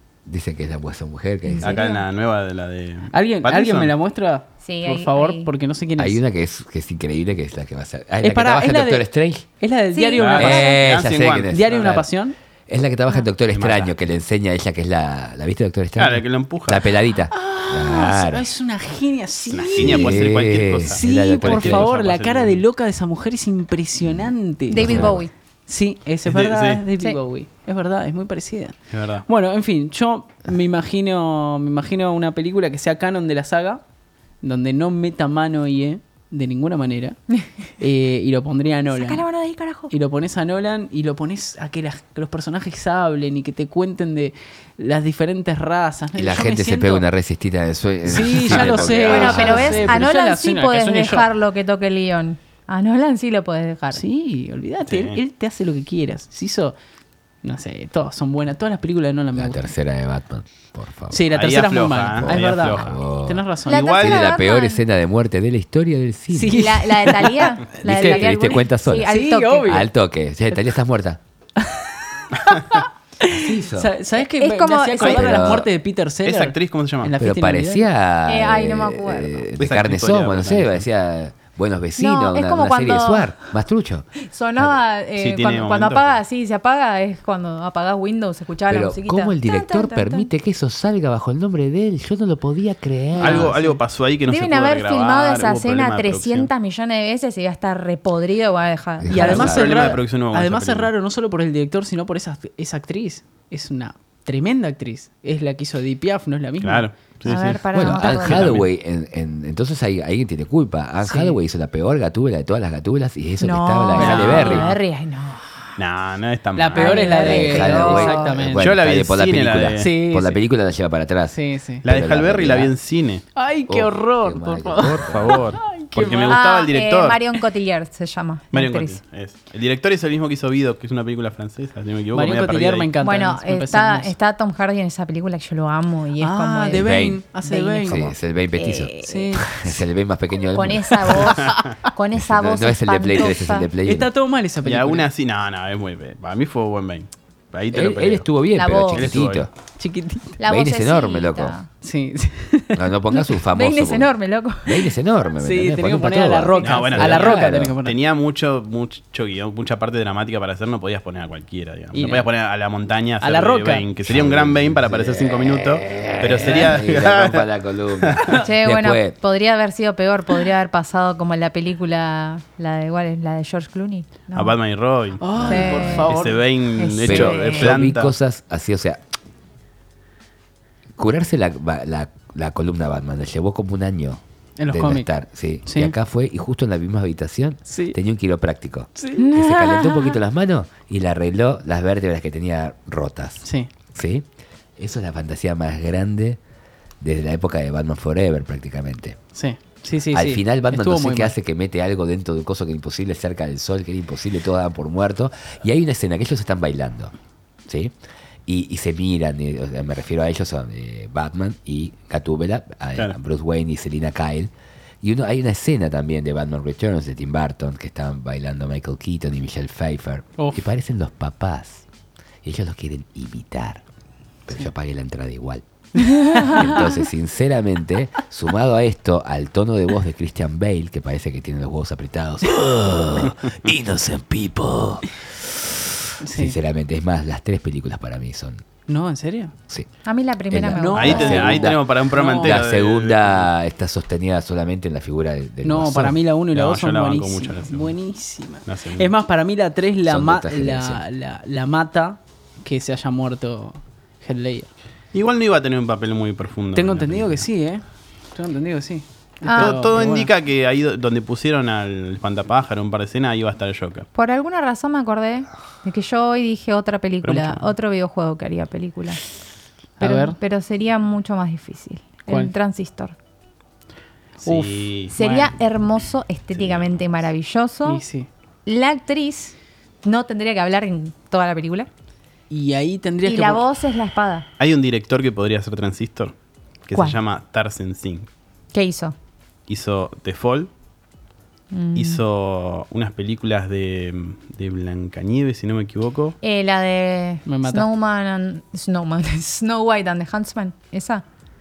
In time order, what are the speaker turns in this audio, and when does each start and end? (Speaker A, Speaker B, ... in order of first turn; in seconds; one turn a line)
Speaker A: 0.2-1.8
Speaker B: 1.4-2.0
Speaker C: 1.6-3.9
Speaker D: 3.1-6.2
Speaker B: 4.6-5.5
Speaker A: 6.0-9.4
Speaker D: 8.2-9.1
Speaker D: 9.6-10.7
Speaker B: 9.9-10.8
Speaker C: 10.2-12.0
Speaker A: 10.3-12.0
Speaker D: 11.5-12.3
Speaker A: 12.7-18.5
Speaker C: 13.5-14.0
Speaker C: 15.9-16.9
Speaker D: 17.3-20.2
Speaker C: 19.5-22.6
Speaker A: 19.8-21.9
Speaker D: 20.8-33.8
Speaker A: 24.1-25.2
Speaker B: 24.7-25.3
Speaker C: 26.2-26.8
Speaker C: 28.9-29.2
Speaker D: 34.4-37.2
Speaker D: 37.8-39.2
Speaker B: 38.9-39.9
Speaker D: 39.9-47.1
Speaker A: 46.1-50.1
Speaker D: 48.0-51.3
Speaker B: 48.6-54.0
Speaker D: 53.9-56.8
Speaker C: 54.9-55.2
Speaker D: 57.4-59.7
Speaker A: 59.4-61.2
Speaker D: 61.1-63.8
Speaker C: 61.3-63.0
Speaker A: 62.1-63.4
Speaker C: 63.7-64.3
Speaker B: 63.7-64.8
Speaker A: 64.0-71.2
Speaker D: 66.3-68.3
Speaker B: 66.5-69.8
Speaker D: 69.0-69.9
Speaker D: 71.6-77.9
Speaker A: 73.3-73.9
Speaker B: 74.1-75.4
Speaker A: 75.0-75.7
Speaker C: 76.2-77.1
Speaker A: 77.2-84.8
Speaker B: 78.2-79.4
Speaker C: 79.6-80.8
Speaker B: 82.0-83.3
Speaker B: 84.3-90.3
Speaker C: 85.1-86.2
Speaker A: 88.7-93.6
Speaker C: 93.2-96.5
Speaker D: 93.3-93.7
Speaker B: 94.3-99.5
Speaker A: 99.0-100.0
Speaker D: 99.1-106.9
Speaker C: 99.2-100.9
Speaker C: 106.6-108.7
Speaker B: 107.2-108.5
Speaker A: 107.7-114.7
Speaker D: 111.0-111.4
Speaker B: 113.4-115.7
Speaker C: 114.0-114.8
Speaker D: 114.0-114.6
Speaker C: 115.8-117.1
Speaker D: 116.5-118.7
Speaker B: 116.7-118.3
Speaker A: 117.1-122.7
Speaker C: 118.4-119.9
Speaker D: 119.8-120.4
Speaker D: 121.3-121.8
Speaker C: 121.8-123.2
Speaker D: 123.3-126.4
Speaker A: 123.7-125.4
Speaker C: 125.0-127.2
Speaker B: 126.2-129.0
Speaker C: 128.5-132.9
Speaker D: 132.1-134.1
Speaker B: 133.0-139.3
Speaker D: 136.2-138.1
Speaker A: 136.7-137.2
Speaker A: 137.8-141.4
Speaker D: 139.0-139.5
Speaker B: 140.5-143.7
Speaker C: 141.4-141.7
Speaker A: 142.1-144.1
Speaker D: 143.8-145.1
Speaker C: 144.6-148.3
Speaker A: 147.7-149.5
Speaker B: 148.6-149.2
Speaker C: 148.9-149.4
Speaker D: 149.8-150.4
Speaker B: 150.4-151.7
Speaker A: 150.4-151.6
Speaker D: 151.8-152.8
Speaker A: 152.7-154.1
Speaker B: 153.1-154.9
Speaker A: 154.6-157.7
Speaker D: 155.4-158.0
Speaker C: 156.5-168.4
Speaker D: 161.9-162.3
Speaker D: 163.2-163.8
Speaker A: 164.0-169.1
Speaker B: 168.3-174.6
Speaker C: 174.3-175.2
Speaker D: 175.2-176.4
Speaker A: 175.3-176.1
Speaker B: 175.4-176.1
Speaker C: 176.1-178.1
Speaker B: 176.7-177.9
Speaker A: 177.1-179.0
Speaker A: 181.0-196.4
Speaker D: 184.6-185.1
Speaker D: 185.6-185.9
Speaker D: 187.7-188.0
Speaker D: 188.9-189.3
Speaker B: 189.2-190.2
Speaker D: 193.4-193.7
Speaker A: 197.0-199.2
Speaker D: 199.3-201.3
Speaker A: 200.1-207.1
Speaker A: 207.7-207.9
Speaker A: 208.4-214.5
Speaker A: 215.0-221.8
Speaker D: 220.4-220.6
Speaker A: 222.4-223.8
Speaker A: 224.5-238.6
Speaker B: 226.0-226.9
Speaker D: 226.3-226.7
Speaker D: 236.2-236.6
Speaker D: 238.9-239.5
Speaker B: 240.0-241.6
Speaker A: 240.5-246.2
Speaker D: 240.7-242.6
Speaker C: 240.9-243.5
Speaker D: 245.6-254.7
Speaker C: 246.5-247.9
Speaker C: 248.6-249.1
Speaker A: 250.1-251.0
Speaker C: 255.1-257.4
Speaker D: 256.7-260.3
Speaker B: 259.4-259.8
Speaker C: 259.5-264.1
Speaker B: 264.1-269.2
Speaker C: 267.2-267.7
Speaker D: 270.0-270.4
Speaker B: 270.0-273.1
Speaker D: 272.3-272.5
Speaker C: 274.4-275.1
Speaker D: 274.4-275.5
Speaker B: 275.1-278.0
Speaker C: 276.5-277.2
Speaker D: 277.9-278.3
Speaker B: 278.6-281.9
Speaker D: 282.5-283.6
Speaker B: 283.2-284.5
Speaker C: 284.6-286.3
Speaker C: 286.9-288.3
Speaker B: 288.7-289.1
Speaker C: 289.7-290.7
Speaker B: 291.7-292.2
Speaker C: 291.9-296.4
Speaker B: 296.4-301.2
Speaker D: 297.4-297.9